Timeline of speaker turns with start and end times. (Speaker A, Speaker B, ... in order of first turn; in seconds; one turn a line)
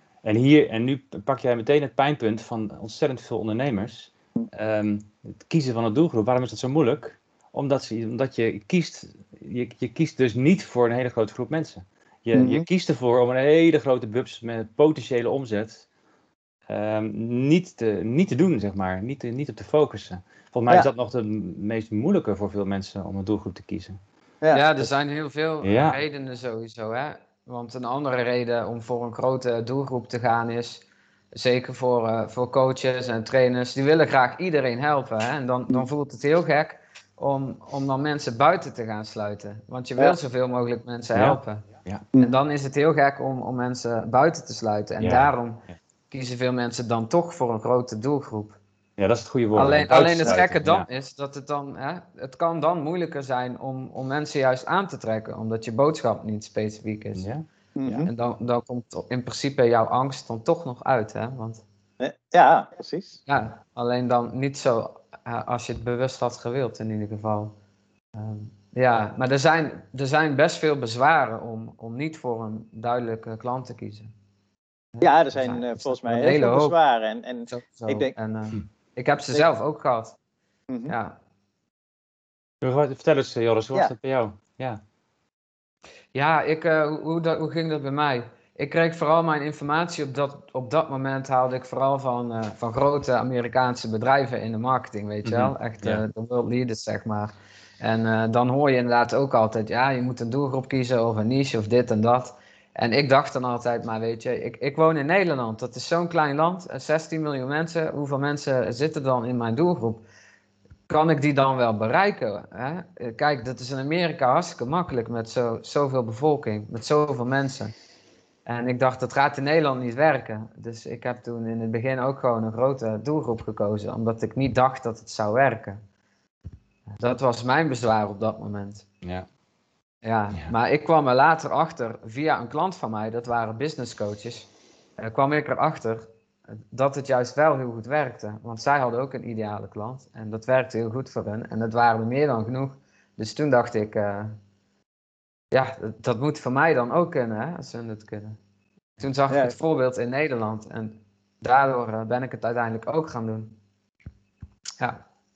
Speaker A: 0.2-15.9
Speaker B: 12.3-12.7
Speaker A: 16.7-24.0
Speaker C: 24.5-41.7
Speaker A: 25.6-26.0
Speaker A: 41.1-42.0
Speaker C: 42.2-48.6
Speaker A: 45.0-45.7
Speaker A: 49.0-50.9
Speaker C: 49.5-57.2
Speaker A: 57.1-58.1
Speaker B: 57.8-58.1
Speaker C: 58.0-61.6
Speaker B: 62.0-63.2
Speaker C: 63.3-67.5
Speaker C: 68.1-74.1
Speaker C: 74.9-76.8
Speaker B: 75.0-78.1
Speaker C: 77.5-80.2
Speaker B: 80.7-80.9
Speaker C: 80.9-81.2
Speaker A: 82.6-84.8
Speaker C: 86.1-110.0
Speaker A: 95.2-96.0
Speaker C: 110.9-117.7
Speaker C: 118.5-125.8
Speaker C: 127.0-128.8
Speaker A: 129.0-129.3
Speaker C: 130.0-134.5
Speaker C: 135.0-136.1
Speaker C: 136.7-144.4
Speaker C: 145.5-148.4
Speaker C: 149.0-153.6
Speaker B: 149.3-149.5